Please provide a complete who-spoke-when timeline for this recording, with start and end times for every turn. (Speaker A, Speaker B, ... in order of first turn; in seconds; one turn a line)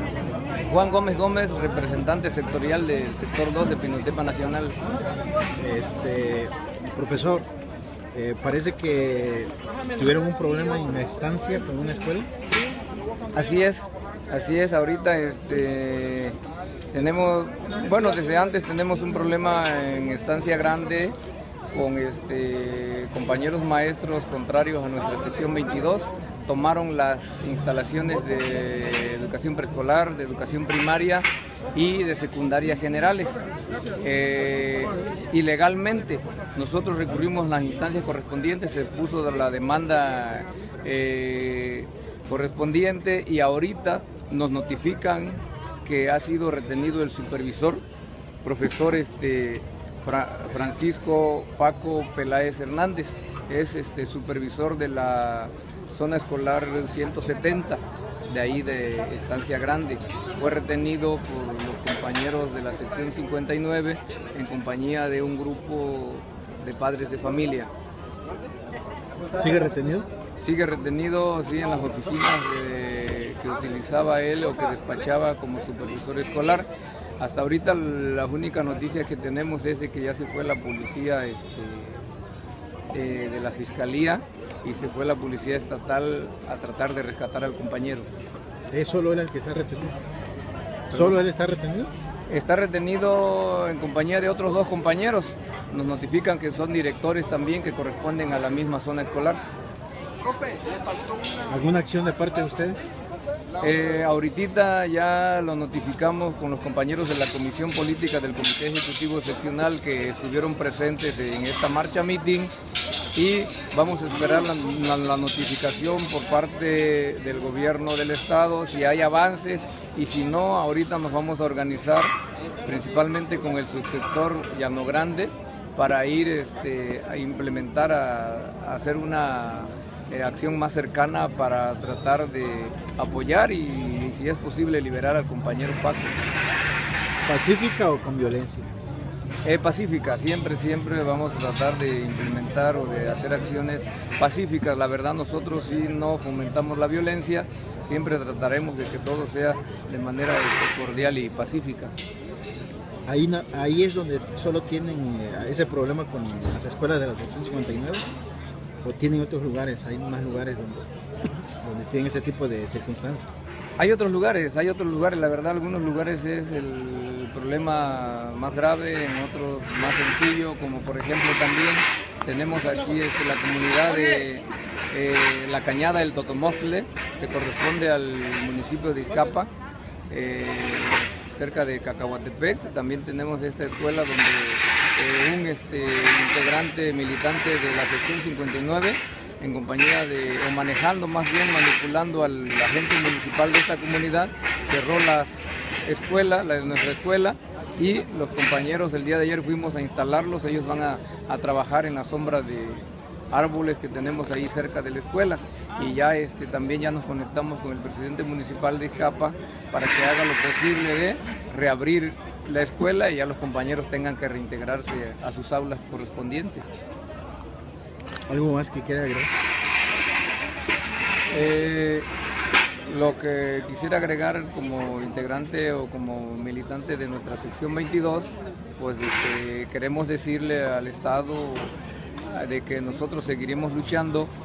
Speaker A: 0.6-4.8
Speaker B: 5.6-7.5
Speaker B: 8.1-12.3
Speaker A: 13.3-16.4
Speaker A: 16.9-21.1
Speaker A: 21.7-33.4
Speaker A: 34.0-47.8
Speaker A: 48.4-67.7
Speaker B: 69.3-70.1
Speaker A: 70.4-76.7
Speaker A: 77.2-82.0
Speaker A: 82.9-88.1
Speaker B: 88.7-90.0
Speaker A: 90.9-91.2
Speaker B: 90.9-91.9
Speaker A: 92.3-99.4
Speaker B: 101.5-102.8
Speaker A: 103.6-112.5
Speaker A: 113.1-122.1
Speaker A: 122.6-136.2
Speaker B: 137.2-138.7
Speaker A: 139.4-151.9
Speaker B: 153.1-158.1
Speaker B: 158.8-160.9
Speaker B: 161.6-163.3
Speaker A: 163.8-179.5
Speaker A: 180.1-216.7
Speaker B: 218.3-219.3
Speaker A: 221.3-222.1
Speaker A: 222.8-231.7
Speaker A: 232.3-234.3